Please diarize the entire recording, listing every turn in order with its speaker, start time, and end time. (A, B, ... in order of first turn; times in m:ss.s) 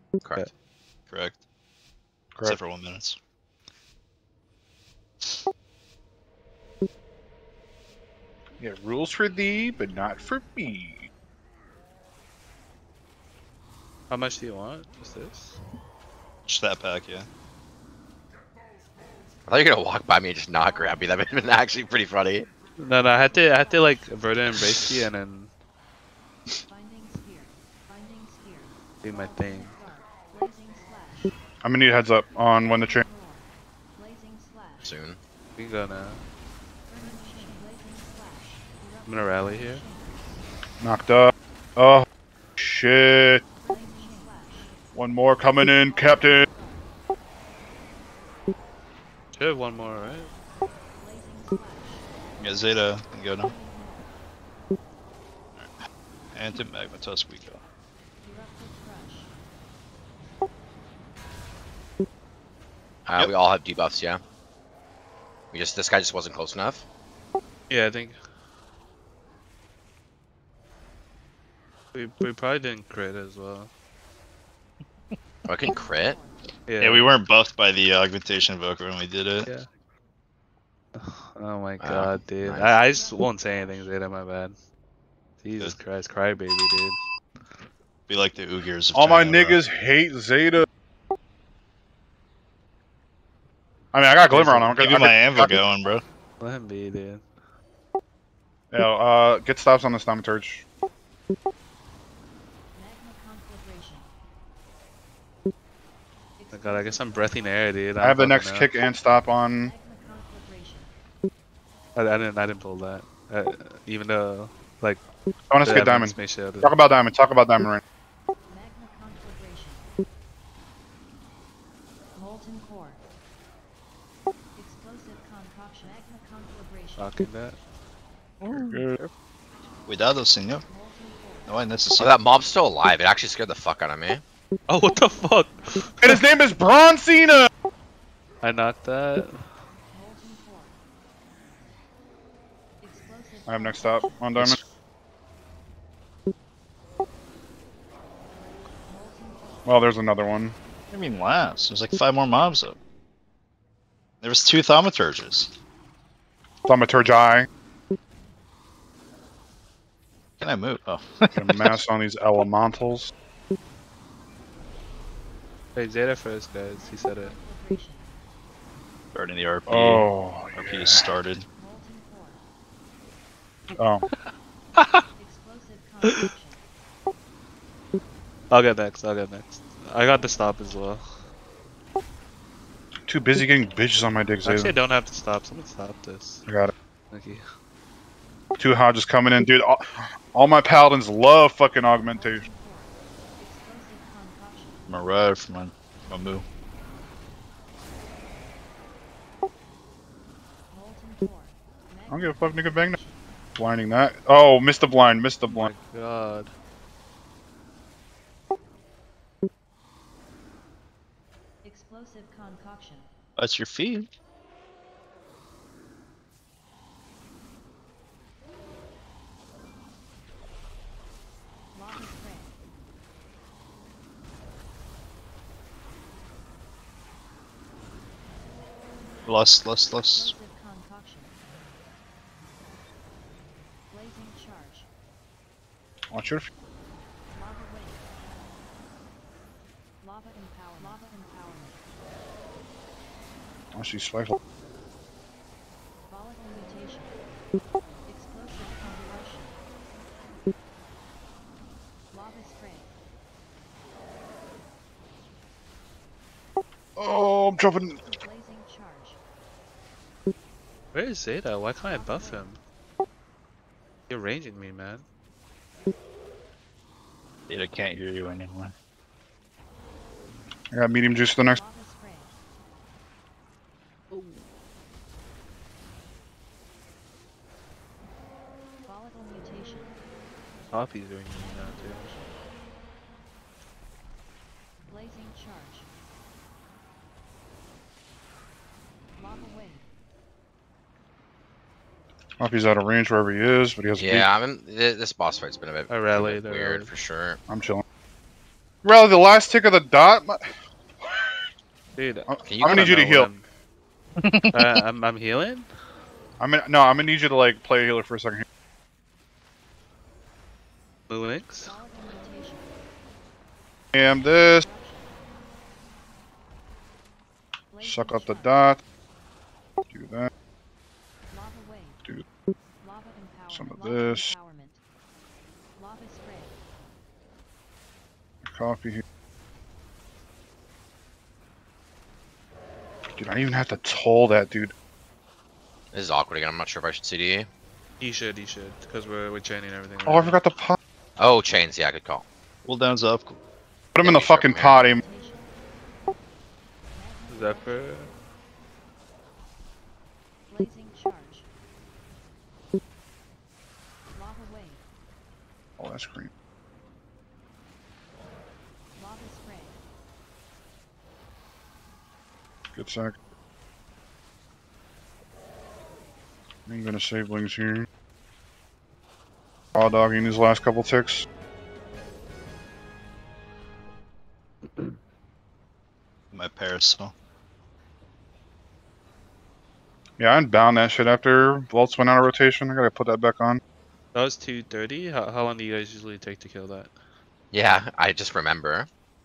0:00.2-0:00.5 A
0:01.1-0:01.4 B
0:02.4-0:02.6 C
0:02.4-0:03.2 B
0:08.6-0:11.1 C
0:14.1-0:15.6 D
0:16.5-0:17.3 B
0:19.5-0:22.5 A
0:22.8-0:25.5 D
0:23.3-0:24.5 E
0:26.7-0:31.4 E
0:29.0-0:29.8 D
0:31.6-0:33.0 C
0:32.7-0:34.9 E
0:34.8-0:35.2 A
0:35.6-0:36.2 D
0:36.9-0:40.2 E
0:39.1-0:39.8 D
0:40.8-0:42.1 C
0:42.6-0:43.4 C
0:43.6-0:44.8 E
0:45.0-0:46.5 C
0:45.9-0:46.9 E
0:49.3-0:50.3 D
0:51.0-0:52.1 E
0:52.4-0:53.6 B
0:53.4-0:54.1 E
0:56.3-0:57.6 B
0:58.2-0:59.3 E
1:03.1-1:04.2 A
1:05.5-1:06.8 A
1:07.7-1:08.2 D
1:11.9-1:13.7 D
1:15.5-1:16.2 A
1:15.8-1:16.4 E
1:16.7-1:17.1 D
1:16.8-1:19.5 B
1:21.0-1:24.6 D
1:21.8-1:22.7 A
1:22.5-1:24.0 E
1:25.4-1:27.0 D
1:28.1-1:29.6 B
1:28.9-1:30.7 C
1:33.9-1:35.6 C
1:34.3-1:34.7 D
1:34.8-1:36.0 B
1:36.4-1:37.2 D
1:38.7-1:40.6 C
1:42.7-1:44.1 E
1:46.4-1:47.6 E
1:46.5-1:48.7 D
1:48.0-1:49.7 C
1:49.6-1:50.9 E
1:52.0-1:55.0 D
1:55.5-1:57.8 C
1:55.6-1:56.7 D
1:58.5-1:59.9 E
2:02.2-2:03.0 E
2:04.6-2:07.2 E
2:07.0-2:07.6 D
2:08.4-2:09.1 B
2:08.5-2:09.0 C
2:09.9-2:10.7 B
2:10.7-2:11.5 E
2:11.5-2:12.2 B
2:12.0-2:14.2 A
2:14.7-2:16.2 D
2:14.9-2:16.2 E
2:16.0-2:17.5 C
2:18.4-2:19.5 D
2:19.8-2:20.8 E
2:22.8-2:24.4 E
2:23.5-2:24.6 C
2:28.9-2:29.7 E
2:29.7-2:30.6 C
2:30.9-2:32.8 B
2:34.2-2:35.5 B
2:36.6-2:37.5 C
2:40.4-2:41.8 B
2:41.4-2:43.1 C
2:45.8-2:47.4 D
2:46.6-2:48.2 E
2:49.1-2:51.5 B
2:49.7-2:51.1 C
2:51.6-2:52.5 E
2:53.8-2:54.0 C
2:54.8-2:55.0 D
2:55.2-2:56.6 E
2:56.0-2:56.3 D
2:58.5-3:01.1 D
3:03.1-3:04.8 C
3:04.4-3:06.4 D
3:06.5-3:06.7 C
3:07.1-3:07.4 D
3:08.6-3:12.5 C
3:12.1-3:14.8 E
3:14.9-3:16.4 B
3:20.7-3:23.3 E
3:22.1-3:23.0 C
3:23.6-3:25.7 C
3:25.5-3:26.5 D
3:31.6-3:33.1 E
3:33.4-3:34.1 B
3:41.7-3:42.6 E
3:49.2-3:50.4 B
3:50.1-3:51.4 E
3:53.9-3:54.9 E
3:56.1-3:56.5 C
3:57.3-3:58.2 E
4:00.0-4:01.8 E
4:03.7-4:04.4 C
4:06.0-4:07.2 E
4:08.1-4:09.6 E
4:12.1-4:13.0 E
4:17.0-4:18.0 C
4:18.0-4:19.2 E
4:20.9-4:22.6 D
4:21.8-4:22.6 E
4:24.1-4:25.0 D
4:27.5-4:28.7 B
4:30.7-4:31.6 C
4:31.4-4:32.4 E
4:34.1-4:34.4 D
4:38.8-4:40.0 E
4:40.7-4:42.2 D
4:41.4-4:42.4 E
4:44.9-4:45.9 E
4:49.2-4:49.9 E
4:52.4-4:54.3 C
4:54.0-4:57.4 A
4:55.9-4:56.9 D
4:57.5-4:57.8 C
4:58.8-5:00.4 C
5:02.0-5:03.4 D
5:02.3-5:03.3 C
5:02.5-5:03.0 A
5:04.2-5:04.8 B
5:04.5-5:05.7 D
5:06.4-5:08.4 C
5:11.1-5:11.8 D
5:11.6-5:12.8 E
5:13.9-5:14.7 C
5:14.3-5:15.2 E
5:17.7-5:18.6 E
5:17.8-5:18.8 C
5:19.9-5:20.3 C
5:21.3-5:22.0 E
5:22.8-5:24.8 E
5:23.5-5:24.3 C
5:25.8-5:26.6 E
5:28.4-5:29.0 C
5:33.2-5:34.7 C
5:35.9-5:37.5 A
5:38.0-5:40.4 D
5:40.0-5:40.8 C
5:41.2-5:42.2 A
5:42.6-5:43.4 B
5:44.0-5:45.0 C
5:44.0-5:44.8 A
5:44.7-5:45.5 E
5:46.9-5:48.2 E
5:47.3-5:48.1 D
5:50.5-5:51.5 E
5:54.1-5:54.8 E
5:55.8-5:56.3 C
5:58.9-5:59.8 E
6:02.8-6:03.2 C
6:06.7-6:07.9 C
6:09.8-6:11.3 C
6:16.3-6:17.1 B
6:20.2-6:23.6 C
6:24.1-6:26.9 D
6:27.5-6:28.9 A